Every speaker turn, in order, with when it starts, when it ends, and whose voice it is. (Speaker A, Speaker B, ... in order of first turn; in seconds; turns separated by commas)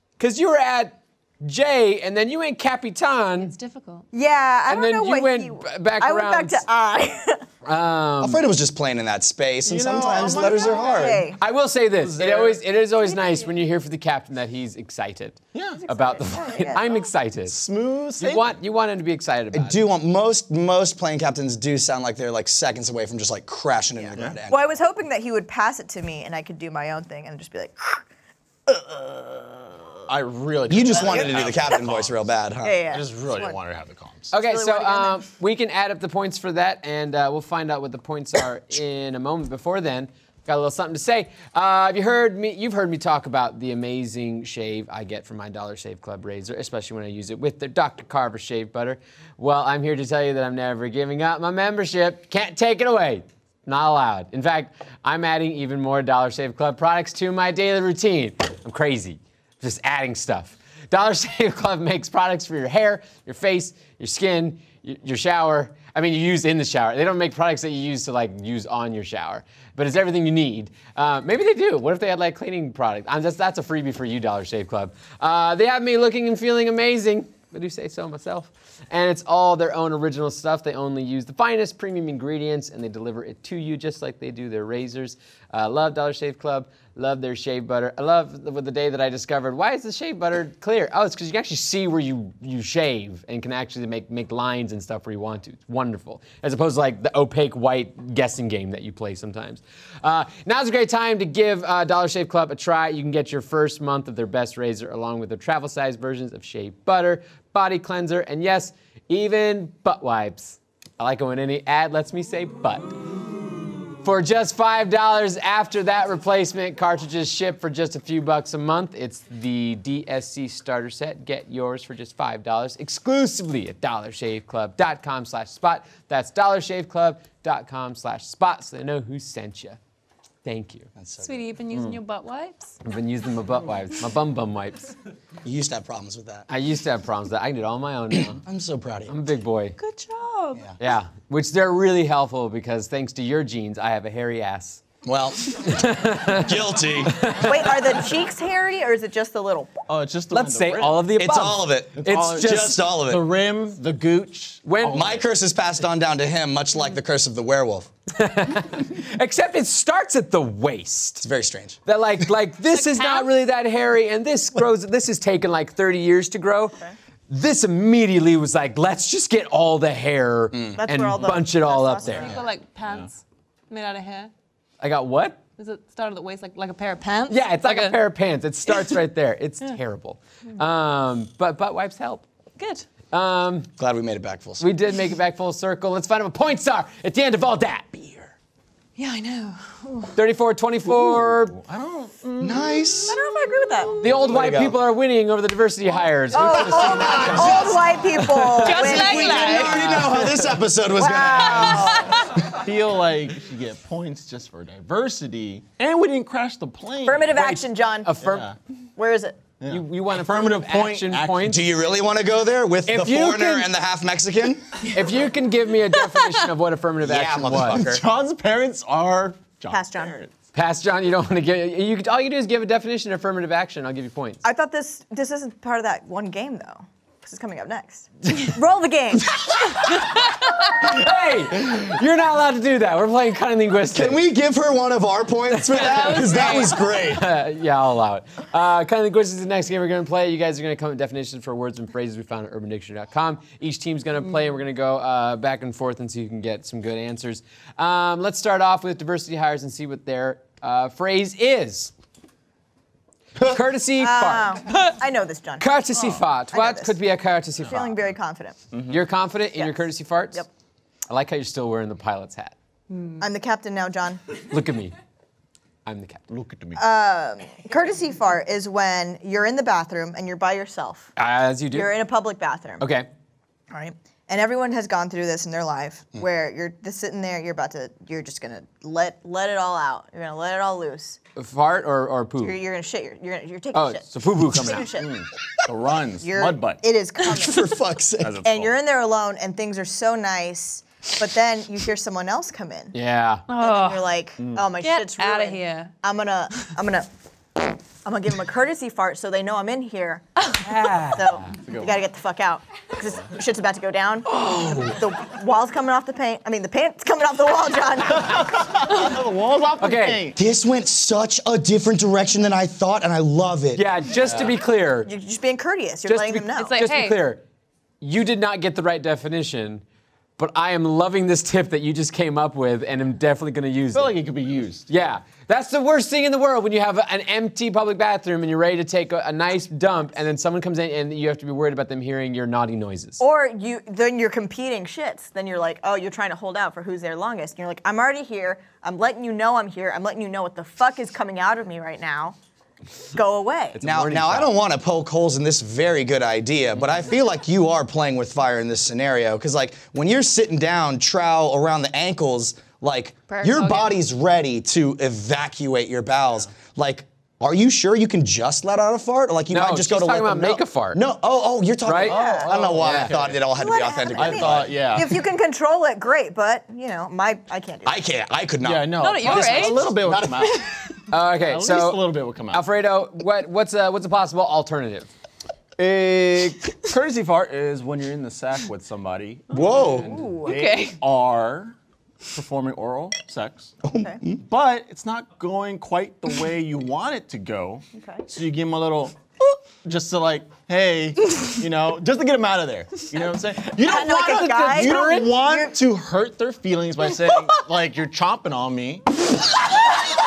Speaker A: 0.2-3.5, Speaker B: 3.4-4.1, Speaker C: 4.1-7.4, Speaker A: 4.7-6.6, Speaker A: 7.6-8.4, Speaker D: 8.2-11.3, Speaker E: 9.6-11.3, Speaker C: 10.1-11.4, Speaker A: 11.4-17.6, Speaker E: 12.0-12.6, Speaker B: 13.0-13.5, Speaker E: 15.5-15.8, Speaker C: 15.8-17.0, Speaker E: 17.4-18.6, Speaker A: 18.2-19.8, Speaker D: 19.5-24.7, Speaker C: 24.0-28.0, Speaker C: 28.7-29.9, Speaker E: 30.1-32.2, Speaker D: 30.7-32.8, Speaker C: 30.9-31.3, Speaker C: 32.6-33.6, Speaker E: 32.9-34.3, Speaker A: 34.3-112.9, Speaker C: 34.3-35.2, Speaker A: 114.0-129.8, Speaker A: 130.4-130.9, Speaker D: 130.9-131.3, Speaker B: 131.2-132.8, Speaker E: 131.7-132.0, Speaker A: 132.8-134.9, Speaker D: 135.4-136.5, Speaker A: 136.5-138.4, Speaker D: 138.3-139.1, Speaker A: 139.1-139.8, Speaker B: 139.8-140.6, Speaker A: 140.8-144.8, Speaker D: 145.0-147.5, Speaker A: 145.5-147.7, Speaker C: 147.4-149.8, Speaker E: 149.9-151.1, Speaker A: 150.3-152.9, Speaker D: 151.2-153.3, Speaker E: 152.0-155.2, Speaker A: 154.6-155.2, Speaker D: 154.8-157.9, Speaker A: 158.1-161.3, Speaker D: 161.2-161.8, Speaker A: 161.8-166.8, Speaker B: 162.7-163.3, Speaker A: 167.3-172.3, Speaker D: 170.5-170.8, Speaker C: 170.8-172.4, Speaker E: 172.0-173.1, Speaker B: 172.2-174.3, Speaker A: 174.8-175.4, Speaker B: 175.6-178.0, Speaker A: 177.3-182.2, Speaker B: 178.7-178.9, Speaker B: 182.6-182.9, Speaker A: 183.1-183.7, Speaker D: 183.8-184.7, Speaker A: 184.6-188.3, Speaker B: 189.0-190.1, Speaker A: 190.1-191.6, Speaker E: 190.8-192.9, Speaker D: 192.4-193.2, Speaker C: 193.1-194.0, Speaker A: 194.0-199.0, Speaker D: 194.2-194.8, Speaker C: 196.3-200.3, Speaker D: 196.4-197.9, Speaker B: 198.6-200.1, Speaker D: 198.6-202.2, Speaker C: 200.9-202.3, Speaker B: 201.3-202.3, Speaker E: 202.5-207.4, Speaker C: 207.0-208.2, Speaker A: 207.3-208.5, Speaker E: 208.2-208.6, Speaker C: 208.9-209.5, Speaker E: 209.6-211.5, Speaker A: 209.7-211.6, Speaker D: 211.4-214.6, Speaker A: 212.8-213.7, Speaker A: 214.9-218.0, Speaker D: 217.0-218.0, Speaker E: 217.7-220.3, Speaker C: 219.7-220.2, Speaker A: 220.5-224.4, Speaker C: 224.4-229.9, Speaker A: 230.6-234.2, Speaker D: 233.9-237.2, Speaker A: 235.5-251.9, Speaker B: 235.7-236.8, Speaker A: 253.4-254.6, Speaker C: 254.0-255.7, Speaker A: 255.6-258.0, Speaker C: 256.5-256.9, Speaker C: 257.6-258.6, Speaker E: 258.7-259.0, Speaker A: 258.9-260.4, Speaker C: 259.6-260.5, Speaker A: 261.1-262.5, Speaker B: 262.9-263.2, Speaker C: 263.2-264.2, Speaker A: 264.5-264.9, Speaker A: 265.9-266.2, Speaker E: 266.3-266.8, Speaker C: 266.8-271.1, Speaker A: 271.2-272.0, Speaker C: 271.7-272.8, Speaker A: 272.8-273.1, Speaker C: 273.7-281.2, Speaker A: 281.4-282.6, Speaker C: 282.4-285.2, Speaker A: 283.7-284.9, Speaker E: 284.9-286.8, Speaker C: 286.2-287.7, Speaker D: 287.4-288.4, Speaker E: 288.2-288.7, Speaker C: 288.4-292.9, Speaker A: 292.9-293.4, Speaker B: 293.5-294.1, Speaker C: 293.6-297.1, Speaker E: 294.4-294.7, Speaker B: 294.8-295.9, Speaker C: 298.0-304.4, Speaker A: 300.6-301.5, Speaker E: 301.5-302.0, Speaker A: 304.2-305.0, Speaker C: 304.9-308.7, Speaker E: 308.3-310.4, Speaker A: 309.8-310.3, Speaker D: 310.4-313.8, Speaker A: 313.7-315.1, Speaker E: 314.2-314.5, Speaker C: 315.1-316.7, Speaker A: 316.1-317.4, Speaker B: 316.6-317.2, Speaker A: 318.0-319.8, Speaker A: 320.4-324.2, Speaker E: 323.9-324.9, Speaker A: 324.9-333.2, Speaker C: 333.2-342.4, Speaker C: 343.1-343.8, Speaker A: 343.7-344.5, Speaker D: 343.8-364.8, Speaker B: 353.3-353.9, Speaker A: 359.5-361.0, Speaker A: 361.8-362.2, Speaker E: 362.0-363.4, Speaker C: 362.1-362.6, Speaker A: 362.8-363.1, Speaker C: 363.5-368.0, Speaker E: 364.1-365.2, Speaker D: 367.8-370.6, Speaker E: 368.6-370.6, Speaker B: 369.0-370.8, Speaker A: 371.1-375.1, Speaker E: 371.3-372.6, Speaker E: 375.8-381.7, Speaker D: 379.5-380.1, Speaker C: 379.7-380.6, Speaker B: 380.4-381.0, Speaker E: 382.3-383.7, Speaker D: 383.8-384.4, Speaker E: 384.4-389.1, Speaker C: 387.9-388.2, Speaker E: 389.8-399.0, Speaker C: 393.8-395.7, Speaker A: 394.1-395.3